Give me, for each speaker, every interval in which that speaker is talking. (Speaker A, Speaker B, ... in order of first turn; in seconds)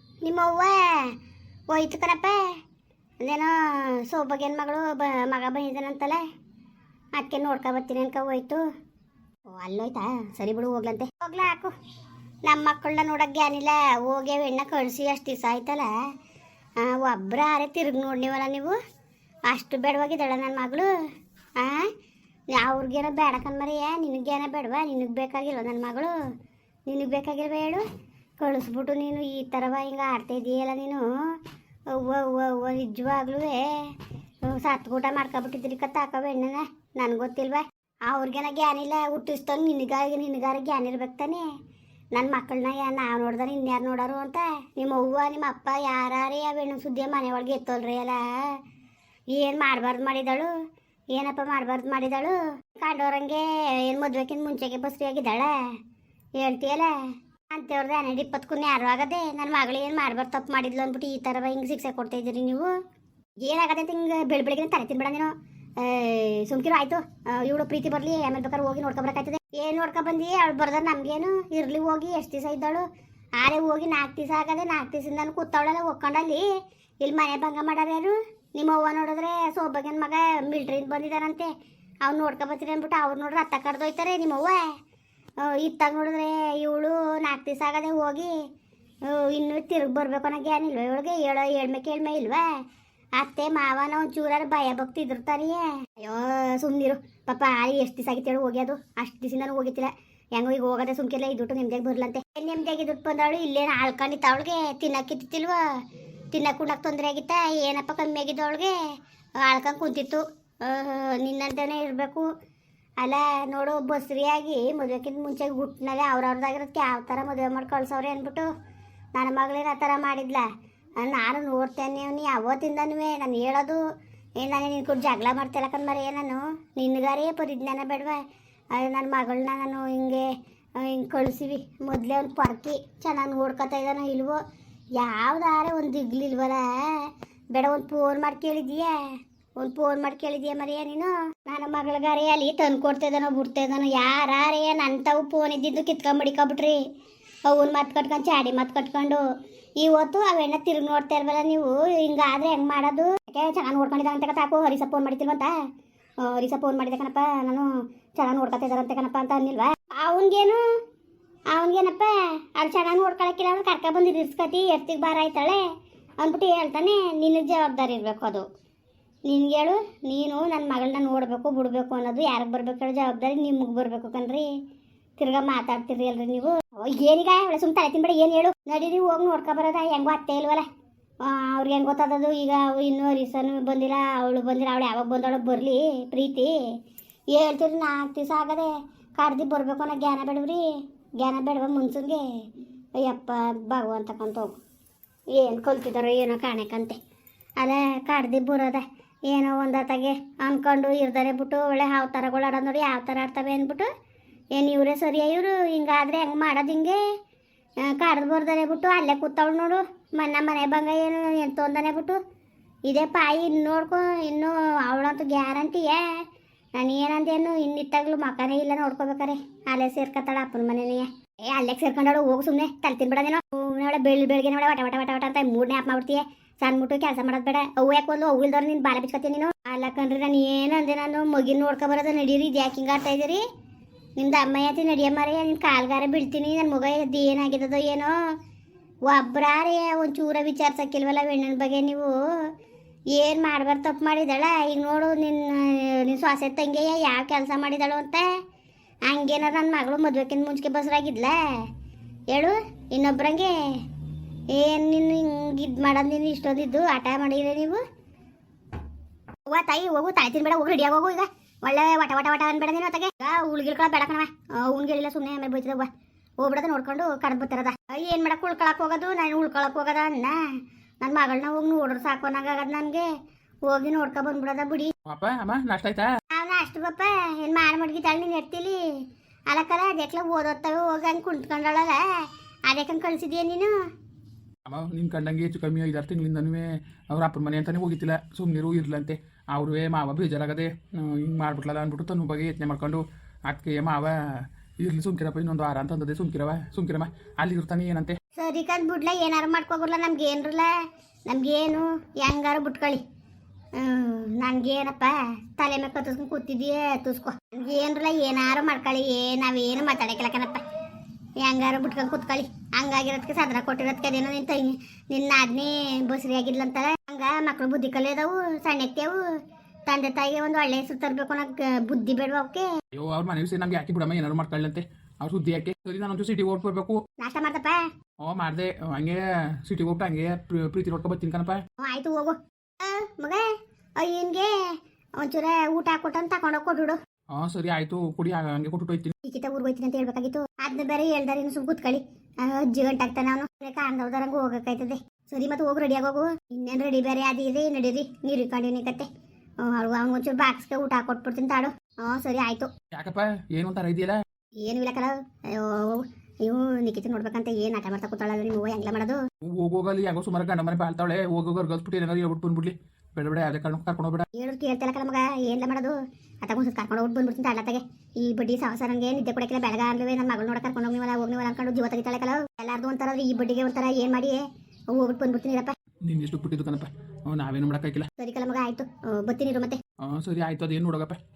Speaker A: 0.2-1.1, 1.7-2.4, 3.2-6.2, 7.2-8.6, 9.5-11.7, 12.4-15.9, 16.8-18.8, 19.5-20.9, 21.6-21.9, 22.5-26.1, 26.9-27.8, 28.4-31.0, 31.9-33.9, 34.4-41.4, 42.1-48.6, 49.3-50.5, 51.1-55.6, 56.4-56.9, 57.5-62.7, 63.4-72.8, 73.4-76.5, 77.0-81.5, 82.0-84.6, 85.4-88.3, 89.0-92.5, 93.2-105.6, 106.3-108.8, 109.4-112.3, 113.0-118.5, 119.1-120.5, 121.0-123.8, 124.4-128.2, 128.7-134.4, 134.9-138.9, 139.6-146.8, 147.5-149.2, 149.8-155.5, 156.2-160.6, 161.5-165.6, 166.2-168.4, 169.3-174.5, 175.2-180.6, 181.2-186.6, 187.3-190.7, 191.2-192.2, 193.0-194.5, 195.3-197.0, 197.6-203.9, 204.6-207.0, 207.8-212.2, 212.9-216.2, 216.8-233.4, 234.2-238.2, 239.1-242.4, 243.1-248.3, 249.1-251.7, 252.3-253.8, 254.5-257.8, 259.4-265.9, 266.4-270.4, 271.0-273.1, 273.7-274.9, 276.3-278.8, 279.5-283.7, 298.4-300.8, 301.3-303.0, 303.7-310.6, 311.4-319.3, 319.9-322.7, 327.2-327.8, 331.8-333.4, 334.0-334.5, 335.2-337.0, 339.2-349.1, 349.6-352.7, 354.6-359.2, 364.3-374.4, 374.9-375.7, 378.2-379.8
Speaker B: 275.1-276.1, 284.6-298.2, 322.9-327.0, 328.2-331.6, 337.3-339.1, 352.9-354.2, 359.4-364.3, 376.0-378.1, 380.0-381.2